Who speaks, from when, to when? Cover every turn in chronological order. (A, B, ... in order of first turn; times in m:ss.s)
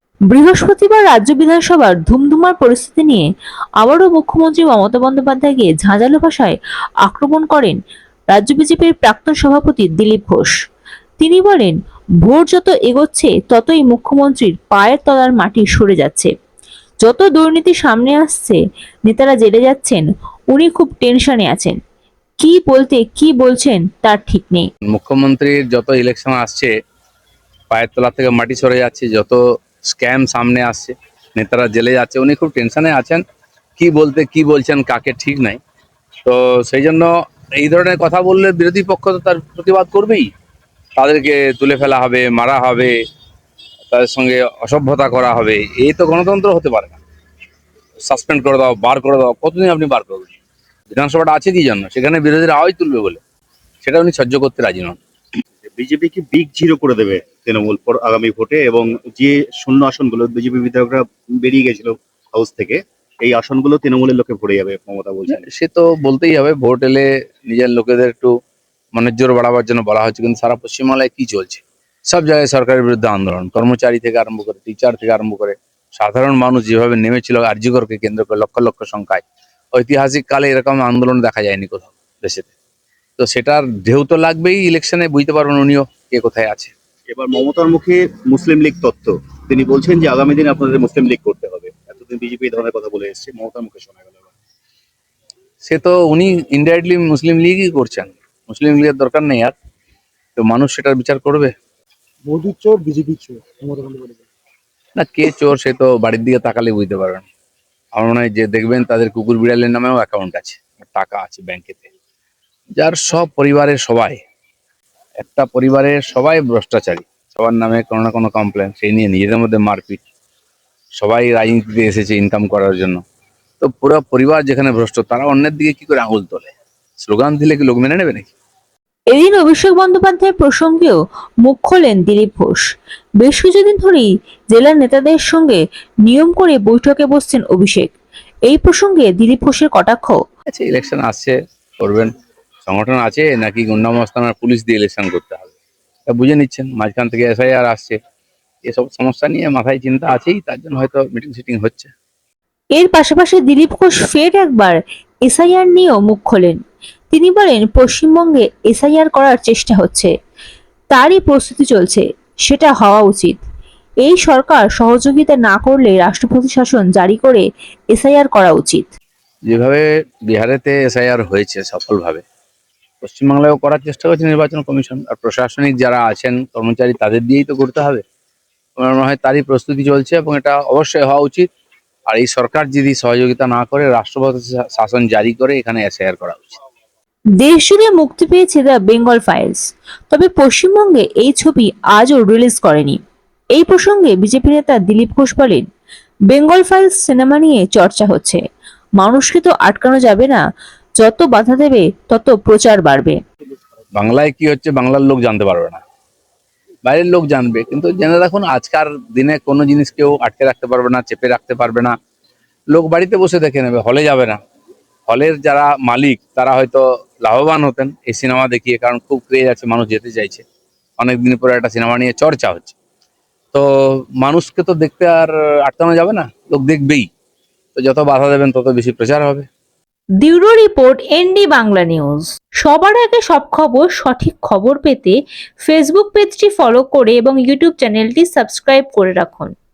0:00.3-0:03.3 A
0:03.8-0:07.8 A
0:08.3-0:10.6 A
0:11.2-0:16.3 A
0:17.0-0:21.8 A
0:22.4-0:24.7 A
0:24.9-0:26.7 B
0:27.7-0:33.2 B
0:33.8-0:35.6 B
0:36.2-0:40.3 B
0:41.0-0:42.9 B
0:43.9-0:47.0 B
0:48.1-0:50.3 B
0:50.9-0:53.2 B
0:53.8-0:55.0 B
0:55.6-1:05.4 C
1:05.3-1:08.3 B
1:08.9-1:19.2 B
1:19.8-1:22.5 B
1:23.2-1:26.7 B
1:27.1-1:34.3 C
1:35.7-1:39.5 B
1:40.4-1:41.5 B
1:42.3-1:44.3 D
1:45.0-1:47.2 B
1:48.0-1:51.9 B
1:52.8-1:54.2 B
1:55.2-2:00.0 B
2:01.0-2:03.0 B
2:03.6-2:08.3 B
2:09.1-2:12.6 A
2:13.2-2:17.9 A
2:18.5-2:20.2 A
2:20.5-2:22.1 B
2:22.7-2:25.5 B
2:26.1-2:28.0 B
2:28.6-2:31.9 B
2:32.8-2:34.8 A
2:35.3-2:36.6 A
2:37.1-2:40.1 A
2:40.9-2:43.4 A
2:44.0-2:48.9 A
2:49.5-2:52.2 B
2:53.0-2:58.0 B
2:58.8-3:01.5 B
3:02.1-3:06.6 B
3:07.4-3:13.0 A
3:13.6-3:15.6 A
3:16.3-3:18.4 A
3:19.0-3:20.4 A
3:21.0-3:23.2 A
3:24.0-3:25.8 B
3:26.9-3:31.9 B
3:32.7-3:34.4 B
3:35.1-3:40.4 B
3:41.0-3:42.8 B
3:44.2-3:47.1 B
3:47.8-3:49.5 B
3:50.2-3:59.5 A